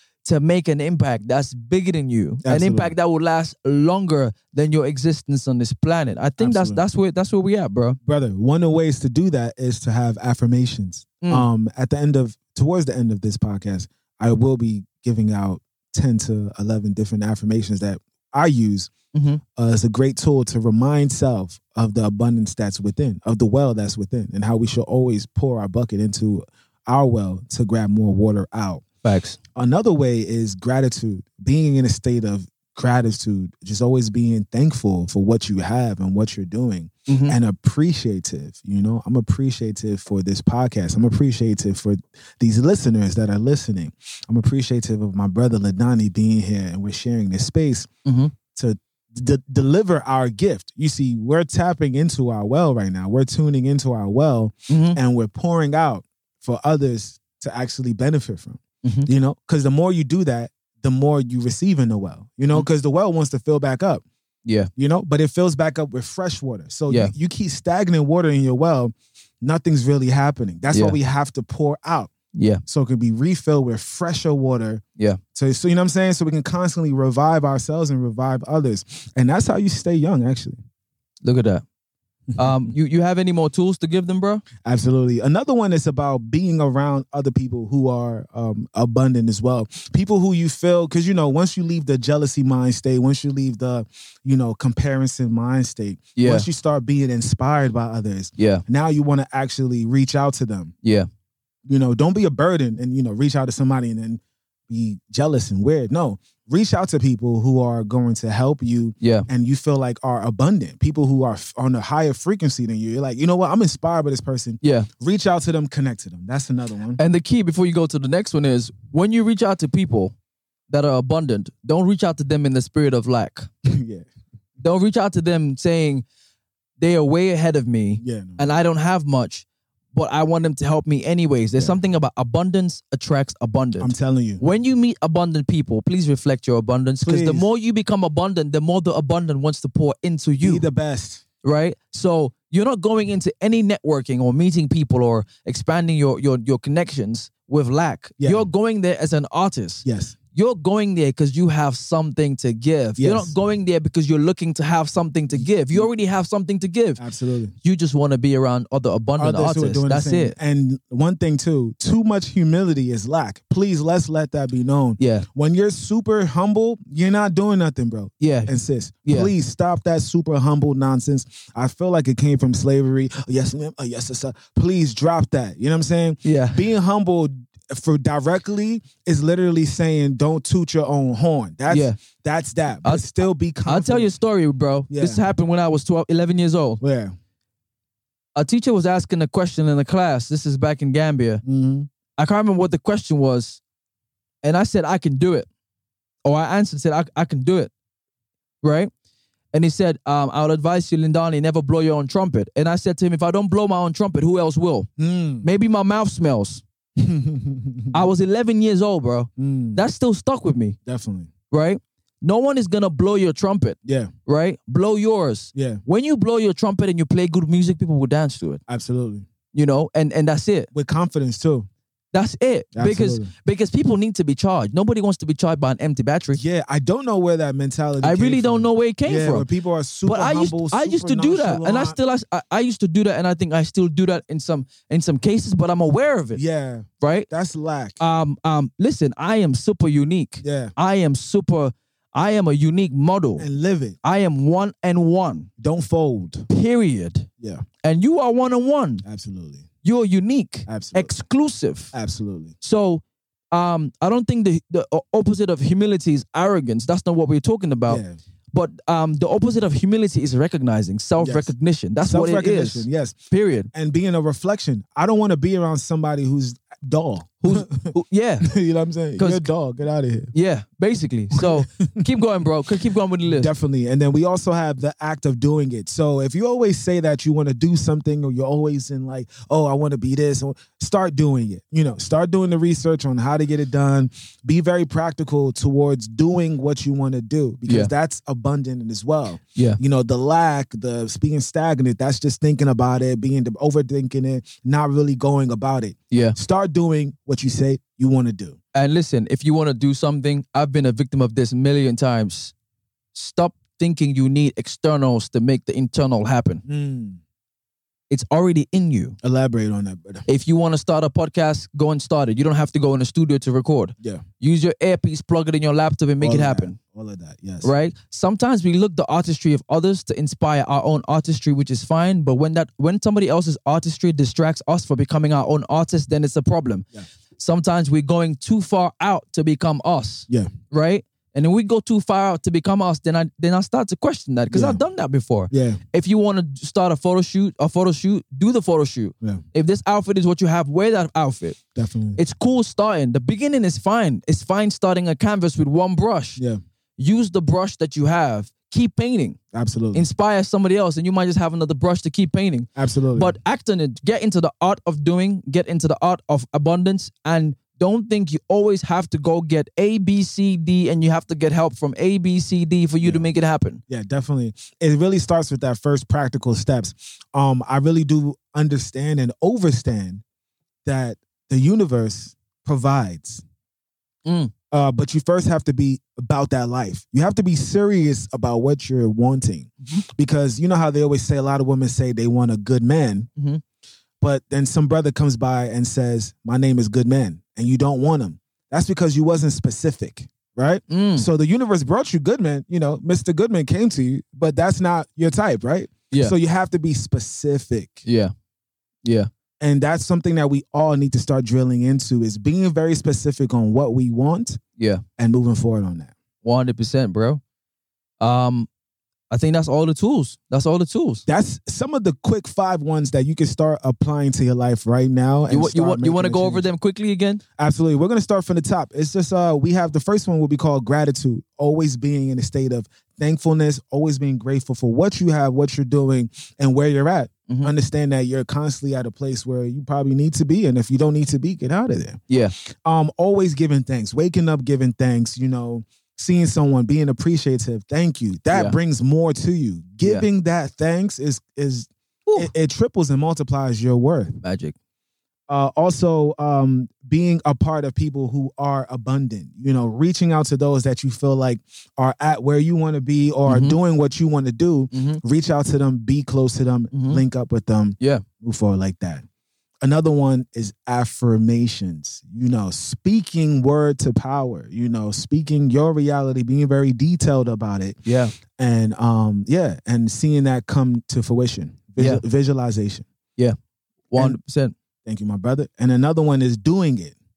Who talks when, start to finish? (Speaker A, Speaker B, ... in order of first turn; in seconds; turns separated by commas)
Speaker A: 0.2-8.0, Speaker B: 2.4-3.0, Speaker B: 6.4-6.8, Speaker B: 8.1-18.9, Speaker A: 11.2-11.5, Speaker A: 19.1-19.4, Speaker B: 19.6-28.8, Speaker A: 29.0-29.4, Speaker B: 29.6-47.9, Speaker A: 37.1-37.4, Speaker A: 48.0-48.3, Speaker B: 48.5-64.0, Speaker A: 54.7-55.0, Speaker A: 58.8-59.1, Speaker A: 64.5-64.7, Speaker B: 64.8-72.1, Speaker A: 72.3-72.6, Speaker B: 72.7-74.8, Speaker B: 75.3-80.6, Speaker A: 81.2-81.6, Speaker B: 82.3-82.7, Speaker A: 82.4-84.5, Speaker B: 84.6-100.7, Speaker A: 96.2-96.5, Speaker A: 98.4-98.6, Speaker B: 101.7-117.0, Speaker A: 109.0-109.3, Speaker A: 114.6-114.9, Speaker A: 117.0-120.2, Speaker A: 120.7-123.5, Speaker B: 123.7-124.1, Speaker A: 124.6-126.0, Speaker A: 126.8-140.7, Speaker B: 128.0-128.4, Speaker B: 133.8-134.4, Speaker B: 137.0-137.5, Speaker B: 140.4-141.2, Speaker A: 141.4-157.0, Speaker B: 148.2-148.5, Speaker B: 149.8-150.2, Speaker B: 153.0-153.3, Speaker B: 155.4-155.9, Speaker B: 157.0-157.5, Speaker A: 157.6-160.4, Speaker B: 159.2-184.1, Speaker A: 165.0-165.3, Speaker A: 168.2-168.5, Speaker A: 169.1-169.3, Speaker A: 176.2-176.7, Speaker A: 181.7-182.0, Speaker A: 183.7-186.8, Speaker B: 184.9-185.2, Speaker B: 186.8-187.2, Speaker A: 188.4-191.4, Speaker B: 191.4-191.9, Speaker A: 192.2-193.6, Speaker A: 194.4-195.5, Speaker A: 196.2-197.7, Speaker A: 198.6-198.9, Speaker A: 199.5-204.9, Speaker B: 205.0-205.5, Speaker A: 205.4-206.6, Speaker B: 207.0-208.0, Speaker A: 207.9-210.8, Speaker B: 209.4-209.8, Speaker B: 210.9-211.3, Speaker A: 211.5-218.6, Speaker B: 213.8-214.1, Speaker B: 215.5-215.8, Speaker B: 218.7-219.3, Speaker A: 219.5-220.7, Speaker B: 220.7-221.7, Speaker A: 222.1-226.4, Speaker B: 222.8-223.3, Speaker B: 226.3-232.0, Speaker A: 228.0-229.5, Speaker A: 230.1-236.4, Speaker B: 236.3-238.0, Speaker A: 237.0-237.3, Speaker A: 238.0-243.5, Speaker B: 240.4-240.7, Speaker B: 243.4-244.0, Speaker A: 244.0-245.5, Speaker B: 245.6-246.5, Speaker A: 246.5-247.3, Speaker A: 247.8-249.0, Speaker B: 249.0-249.7, Speaker A: 249.8-251.9, Speaker B: 250.7-251.2, Speaker B: 251.9-252.6, Speaker A: 252.6-258.0, Speaker B: 257.9-258.2, Speaker A: 258.5-263.7, Speaker B: 261.2-261.5, Speaker B: 262.0-263.2, Speaker B: 263.7-270.3, Speaker A: 267.4-268.5, Speaker A: 269.2-269.5, Speaker A: 270.3-273.5, Speaker B: 271.4-272.1, Speaker B: 273.3-298.6, Speaker A: 296.1-296.4, Speaker A: 298.7-302.5, Speaker A: 303.1-306.6, Speaker B: 306.7-307.2, Speaker A: 308.1-309.2, Speaker B: 309.2-310.2, Speaker A: 310.3-316.8, Speaker B: 316.2-317.7, Speaker A: 317.6-326.9, Speaker A: 327.4-341.6, Speaker B: 334.5-334.8, Speaker B: 335.5-335.8, Speaker B: 341.8-342.2, Speaker A: 342.2-346.4, Speaker A: 347.0-349.4, Speaker B: 349.5-350.1, Speaker A: 349.9-363.8, Speaker B: 352.8-353.3, Speaker B: 363.0-363.3, Speaker B: 363.9-370.2, Speaker B: 370.9-373.4, Speaker A: 374.2-374.5, Speaker B: 374.7-383.3, Speaker A: 383.4-383.6, Speaker B: 384.2-398.1, Speaker A: 390.9-391.3, Speaker A: 398.1-398.3, Speaker B: 399.6-404.6, Speaker A: 404.8-405.0, Speaker B: 405.2-406.1, Speaker A: 406.4-407.4, Speaker A: 408.2-408.7, Speaker A: 409.3-411.2, Speaker B: 411.3-416.7, Speaker A: 415.5-417.4, Speaker B: 417.6-444.3, Speaker A: 438.5-438.8, Speaker A: 444.4-444.8, Speaker B: 445.5-459.2, Speaker A: 453.5-453.8, Speaker A: 454.9-455.2, Speaker A: 456.9-457.2, Speaker B: 459.8-468.0, Speaker A: 468.1-468.4, Speaker B: 468.5-473.1, Speaker A: 472.0-472.2, Speaker A: 474.1-474.7, Speaker B: 475.1-477.2